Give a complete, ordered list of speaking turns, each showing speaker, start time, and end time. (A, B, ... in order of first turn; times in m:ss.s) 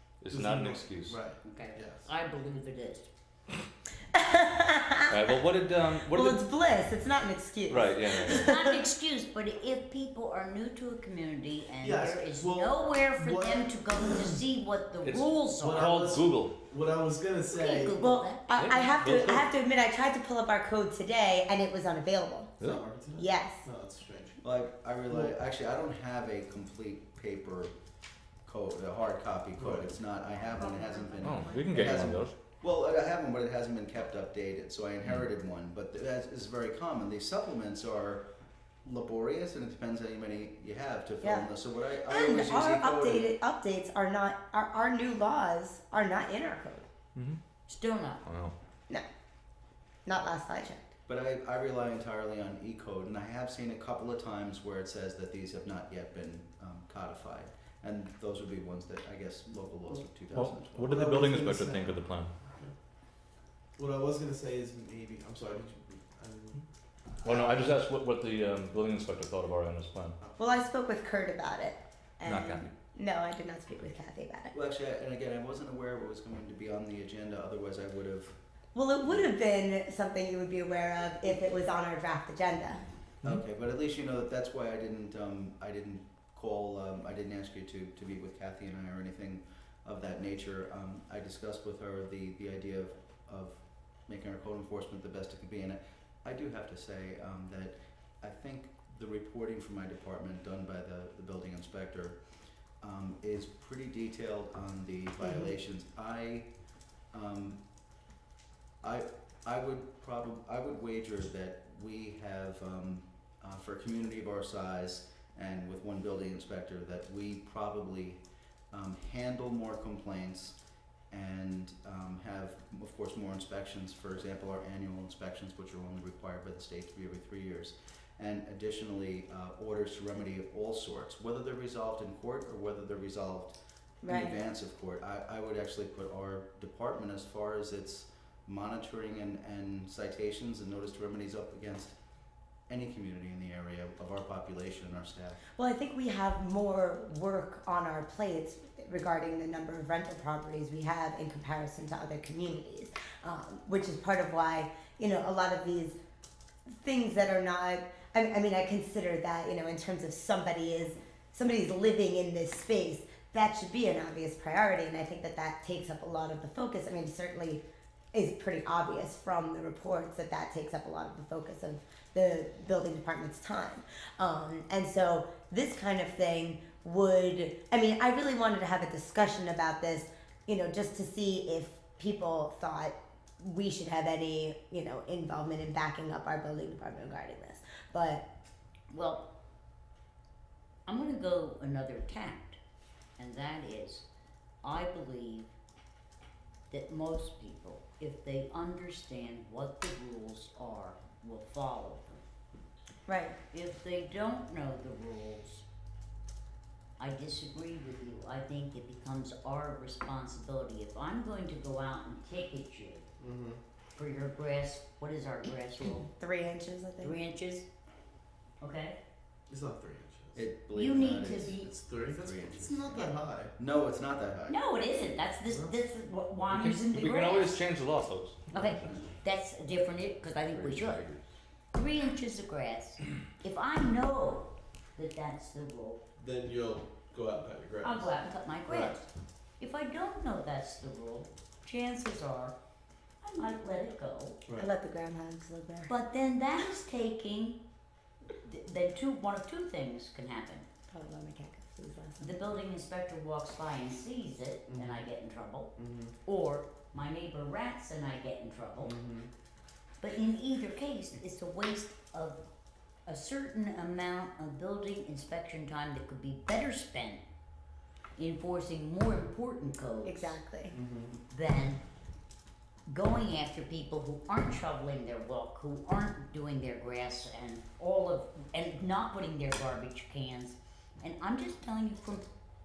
0:00.2-0:01.2 A
0:00.3-0:02.1 B
0:01.4-0:03.1 C
0:04.1-0:05.2 D
0:05.1-0:06.4 A
0:06.0-0:08.8 D
0:07.7-0:08.5 A
0:08.3-0:16.0 C
0:11.8-0:14.3 B
0:15.0-0:16.6 A
0:15.6-0:18.0 B
0:17.5-0:18.5 C
0:18.0-0:22.6 D
0:18.5-0:19.5 A
0:22.6-0:24.4 B
0:23.1-0:23.6 D
0:24.4-0:27.7 E
0:28.4-0:38.2 E
0:29.6-0:30.0 B
0:30.7-0:31.8 D
0:31.2-0:32.3 A
0:38.8-0:43.3 E
0:41.2-0:41.5 D
0:42.1-0:46.8 D
0:47.7-0:48.2 C
0:48.2-0:48.5 A
0:50.0-0:50.9 D
0:51.1-1:01.0 E
1:00.3-1:02.3 A
1:00.8-1:02.7 B
1:03.8-1:06.6 B
1:07.2-1:07.8 B
1:07.2-1:10.2 A
1:10.4-1:14.6 D
1:12.2-1:12.7 A
1:14.5-1:18.4 E
1:18.8-1:22.8 D
1:23.2-1:42.2 E
1:42.8-1:46.5 E
1:47.1-1:47.6 E
1:48.8-2:00.6 E
2:01.1-2:21.9 E
2:14.0-2:14.4 D
2:22.7-2:25.4 E
2:25.6-2:36.0 D
2:36.7-3:08.2 D
3:08.9-3:09.3 C
3:10.8-3:12.6 C
3:13.2-3:14.1 C
3:14.6-3:15.5 C
3:16.7-3:22.1 C
3:23.1-3:23.4 D
3:23.5-3:25.6 C
3:27.0-3:33.1 C
3:33.2-3:33.6 B
3:34.0-3:36.1 C
3:36.2-3:37.2 D
3:37.0-3:37.7 C
3:38.6-3:39.0 C
3:39.5-3:40.4 B
3:40.3-3:44.6 E
3:40.8-3:41.7 C
3:41.5-3:43.5 B
3:44.5-3:47.6 C
3:45.5-3:45.7 B
3:46.5-3:48.5 A
3:48.5-3:51.0 C
3:50.5-3:51.2 A
3:51.7-3:56.0 C
3:56.2-3:58.2 B
3:57.8-3:59.1 C
3:59.6-4:02.5 C
4:03.2-4:04.4 C
4:04.6-4:05.9 D
4:05.9-4:07.6 C
4:08.4-4:10.7 C
4:10.9-4:12.4 D
4:12.2-4:15.7 C
4:14.7-4:15.1 B
4:15.8-4:16.1 B
4:16.2-4:19.0 C
4:18.8-4:19.3 B
4:20.0-4:22.4 C
4:23.0-4:27.2 C
4:28.2-4:30.4 C
4:30.0-4:30.8 D
4:30.7-4:31.2 B
4:31.3-4:31.8 C
4:32.9-4:42.2 C